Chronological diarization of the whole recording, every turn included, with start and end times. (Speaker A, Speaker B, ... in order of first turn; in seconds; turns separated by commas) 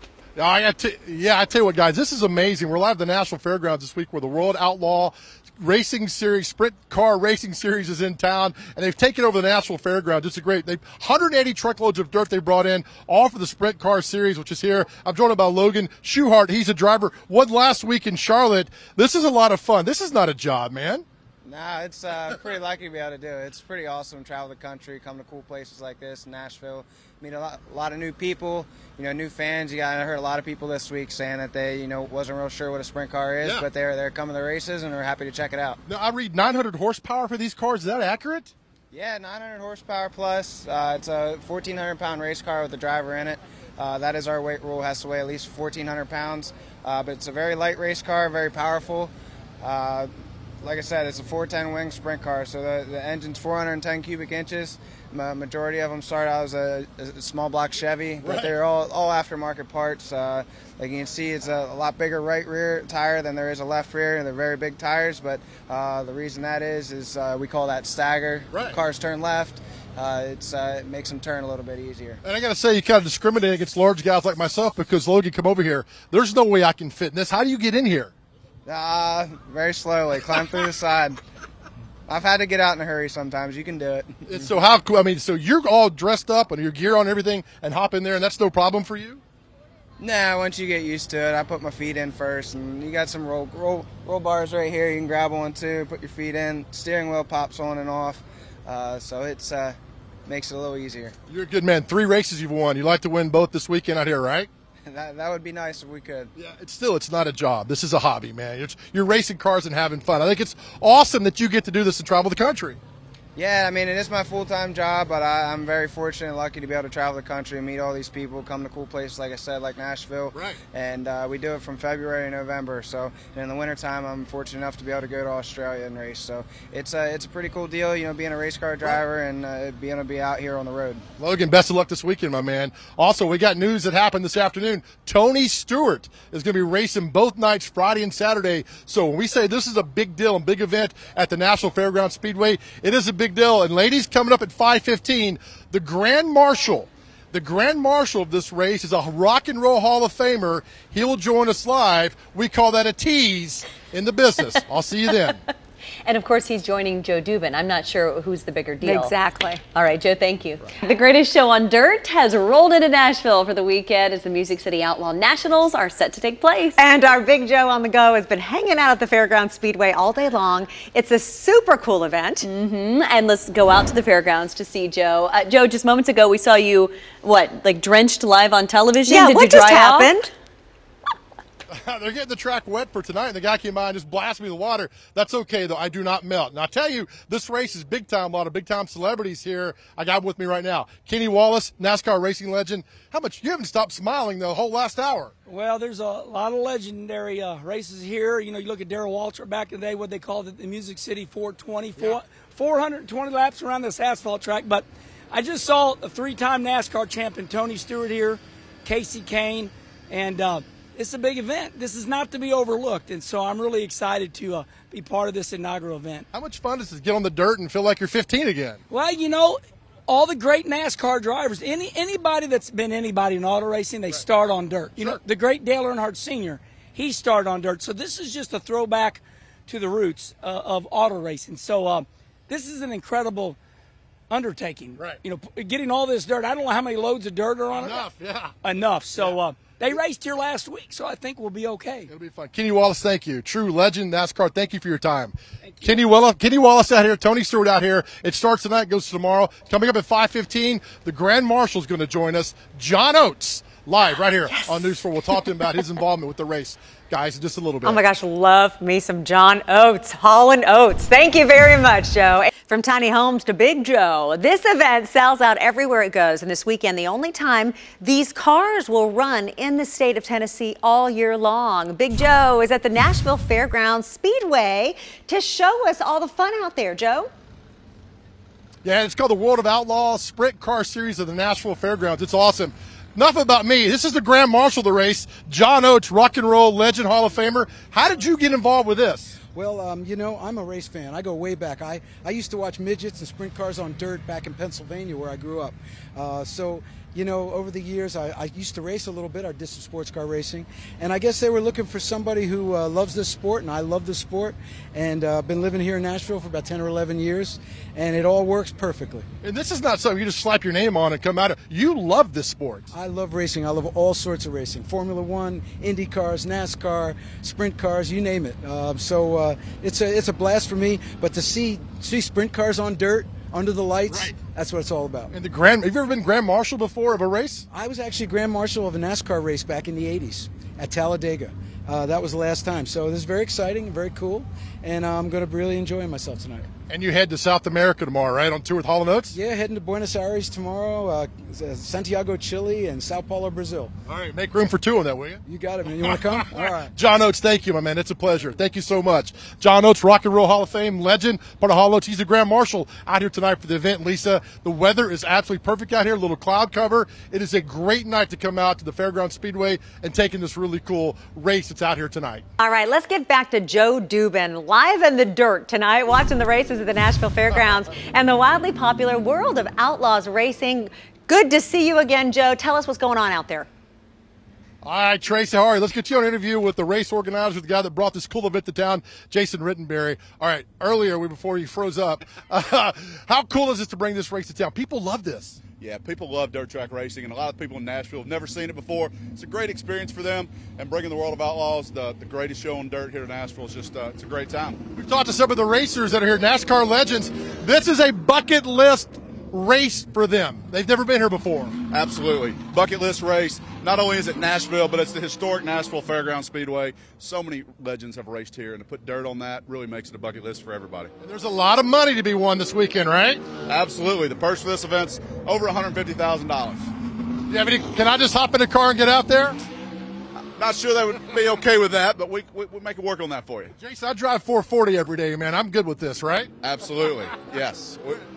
Speaker A: 0.4-21.0, Speaker B: 21.4-35.8, Speaker A: 35.9-38.5, Speaker B: 38.9-50.1, Speaker B: 50.6-72.2, Speaker A: 58.2-58.5, Speaker A: 72.2-78.1, Speaker B: 78.7-81.2, Speaker B: 82.1-84.5, Speaker A: 84.3-89.2, Speaker B: 90.0-101.1, Speaker A: 101.3-104.5, Speaker B: 104.9-106.3, Speaker A: 106.3-112.8, Speaker B: 113.3-131.0, Speaker A: 131.2-155.3, Speaker C: 156.0-159.1, Speaker D: 158.8-159.6, Speaker C: 159.7-166.8, Speaker D: 166.8-172.5, Speaker C: 172.4-180.1, Speaker D: 179.1-180.3, Speaker A: 181.8-195.3, Speaker E: 195.5-216.3, Speaker A: 216.3-218.8, Speaker E: 218.9-233.6, Speaker E: 234.3-238.0, Speaker A: 237.8-238.5, Speaker E: 238.6-242.1, Speaker A: 242.1-258.0, Speaker E: 245.6-246.0, Speaker D: 254.4-255.7, Speaker D: 257.8-277.3, Speaker A: 278.8-289.3, Speaker F: 289.5-309.3, Speaker A: 309.4-312.8, Speaker F: 312.9-325.3, Speaker A: 324.1-324.3, Speaker A: 325.3-327.6, Speaker F: 327.7-336.7, Speaker A: 336.9-339.3, Speaker F: 339.3-343.9, Speaker A: 344.1-345.4, Speaker F: 345.4-346.9, Speaker A: 346.9-362.4, Speaker D: 362.6-373.7, Speaker A: 374.8-385.6, Speaker G: 385.8-394.8, Speaker A: 394.9-401.7, Speaker G: 401.9-411.1, Speaker A: 411.2-413.4, Speaker G: 413.6-416.9, Speaker A: 417.5-419.6, Speaker G: 420.5-423.7, Speaker A: 423.8-426.5, Speaker G: 426.6-428.2